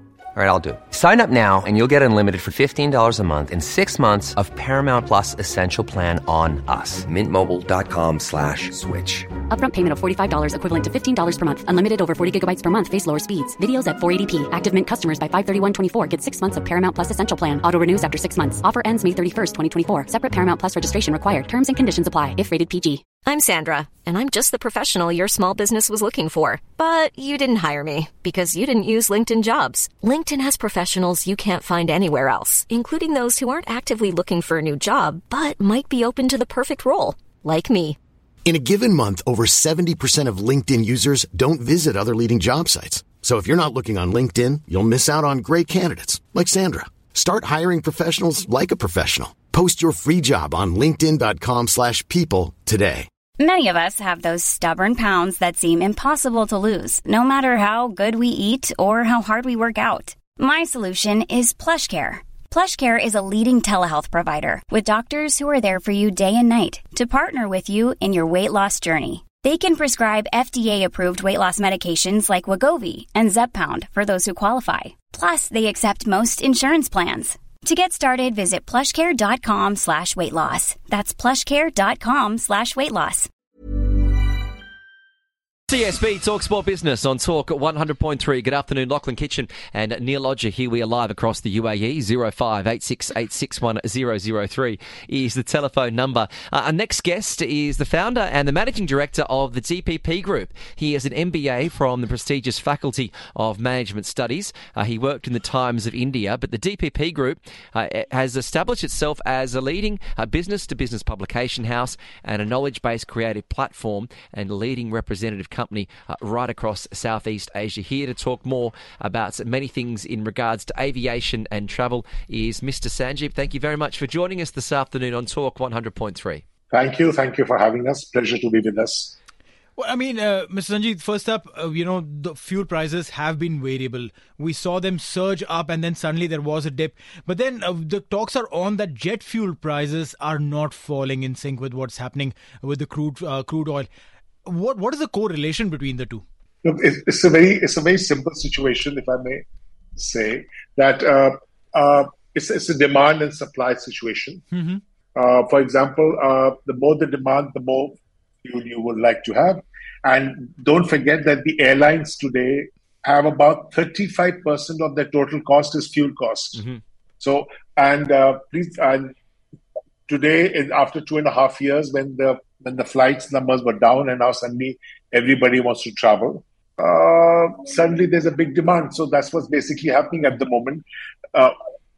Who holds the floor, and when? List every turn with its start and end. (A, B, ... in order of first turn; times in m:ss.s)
0:00.4-0:09.4 A
0:09.5-0:23.1 B
0:23.2-0:38.0 C
0:38.4-0:53.1 D
0:53.4-1:23.3 E
1:25.7-2:06.4 F
2:06.7-2:09.2 G
2:09.8-2:23.9 H
2:24.4-2:26.2 H
2:26.6-2:29.4 G
2:30.0-2:34.4 G
2:34.5-2:34.8 H
2:35.2-2:46.6 G
2:47.2-2:49.1 G
2:50.1-3:01.5 G